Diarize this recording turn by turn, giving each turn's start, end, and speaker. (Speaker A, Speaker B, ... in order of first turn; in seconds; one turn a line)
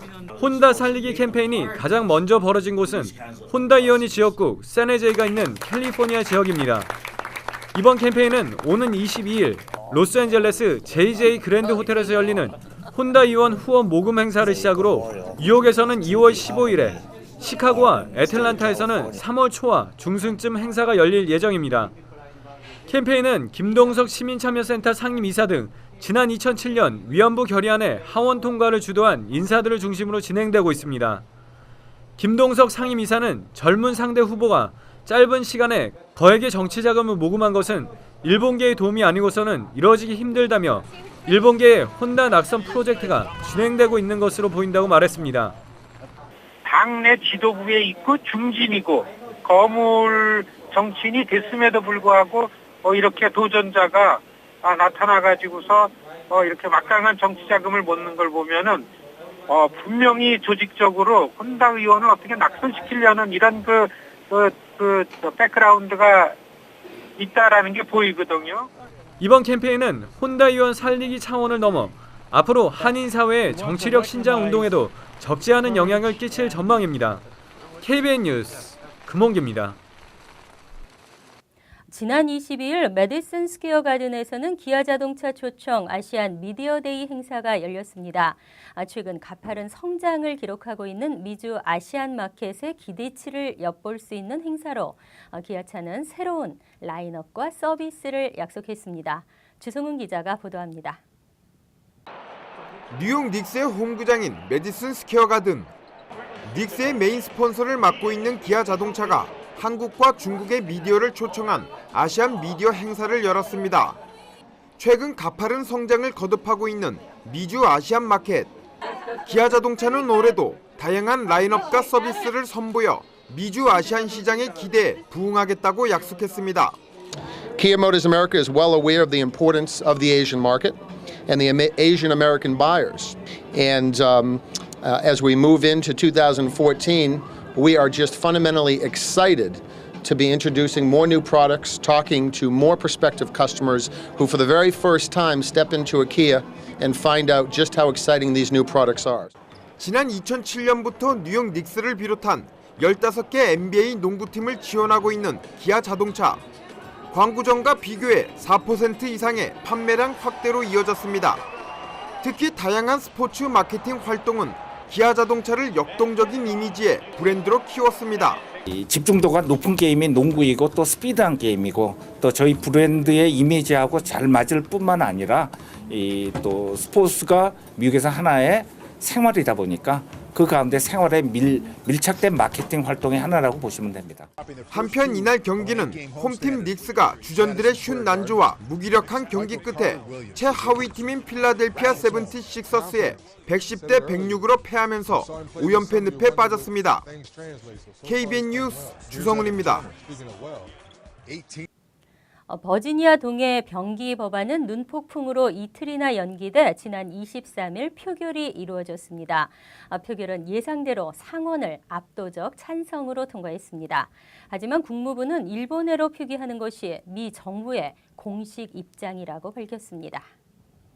Speaker A: 0.3-6.9
Speaker A: 7.7-21.9
Speaker A: 22.9-31.2
Speaker A: 32.2-45.5
Speaker B: 46.6-58.9
Speaker B: 59.5-66.3
Speaker B: 67.2-68.7
Speaker A: 69.2-77.2
Speaker A: 77.8-79.8
Speaker C: 81.9-101.0
Speaker D: 102.9-105.7
Speaker D: 106.4-114.0
Speaker D: 114.8-118.5
Speaker D: 119.2-126.8
Speaker E: 127.6-130.8
Speaker E: 131.3-149.3
Speaker D: 149.8-156.4
Speaker D: 157.1-161.4
Speaker D: 162.2-168.4
Speaker F: 168.7-184.2
Speaker D: 184.7-197.1
Speaker D: 198.0-200.0
Speaker C: 202.5-220.3